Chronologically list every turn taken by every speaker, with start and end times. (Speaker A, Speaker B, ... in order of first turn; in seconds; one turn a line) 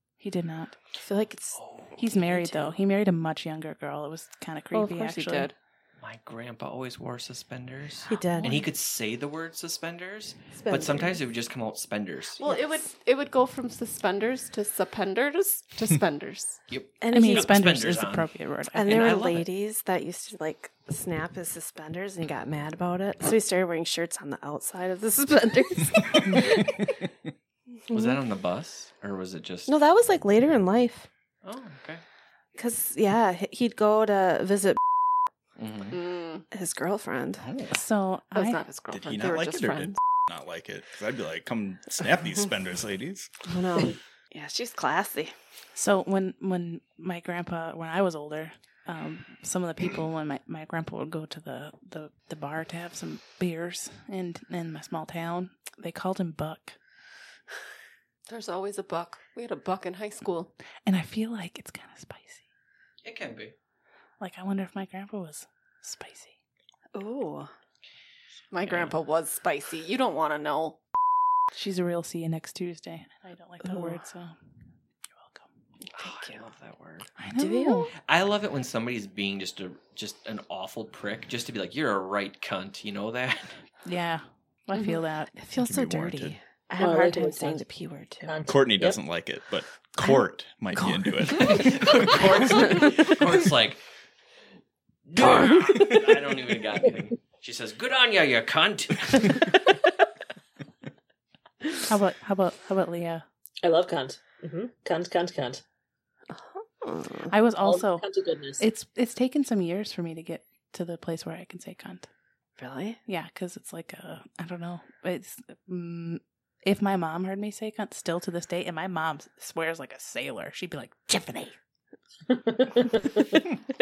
Speaker A: 0.2-0.7
Speaker B: 0.9-1.6
Speaker C: 1.5-1.9
Speaker A: 2.0-5.5
Speaker D: 4.7-5.5
Speaker C: 6.0-12.4
Speaker B: 8.1-8.6
Speaker B: 10.5-11.2
Speaker D: 12.4-16.6
Speaker B: 12.4-12.8
Speaker C: 16.7-19.5
Speaker B: 17.0-17.6
Speaker A: 17.1-19.2
Speaker B: 18.7-27.0
Speaker B: 27.9-28.2
Speaker C: 27.9-29.7
Speaker B: 29.7-31.1
Speaker C: 31.4-32.0
Speaker B: 32.5-34.8
Speaker C: 35.6-36.0
Speaker D: 35.9-36.4
Speaker B: 36.5-37.5
Speaker E: 37.4-37.7
Speaker A: 37.7-38.6
Speaker D: 38.3-40.0
Speaker E: 38.9-43.3
Speaker B: 43.5-45.3
Speaker A: 45.7-56.8
Speaker D: 58.3-60.5
Speaker A: 60.9-62.4
Speaker C: 63.0-63.5
Speaker A: 64.2-66.3
Speaker B: 66.9-67.5
Speaker D: 68.5-70.8
Speaker C: 68.6-68.9
Speaker A: 71.5-74.3
Speaker A: 75.1-75.4
Speaker C: 75.9-77.1
Speaker B: 76.0-76.4
Speaker A: 77.2-77.9
Speaker B: 77.3-77.9
Speaker C: 78.0-83.6
Speaker A: 83.8-85.3
Speaker B: 85.3-88.3
Speaker E: 85.6-86.4
Speaker F: 86.8-87.6
Speaker F: 88.2-89.0
Speaker E: 88.5-92.4
Speaker B: 90.7-93.1
Speaker C: 91.3-93.8
Speaker C: 95.1-99.6
Speaker B: 95.2-95.9
Speaker A: 101.8-103.2
Speaker F: 103.6-105.6
Speaker B: 106.3-107.3
Speaker A: 107.3-108.1
Speaker F: 107.6-108.6
Speaker A: 108.6-112.1
Speaker B: 112.6-113.0
Speaker A: 113.0-121.5
Speaker F: 122.3-123.2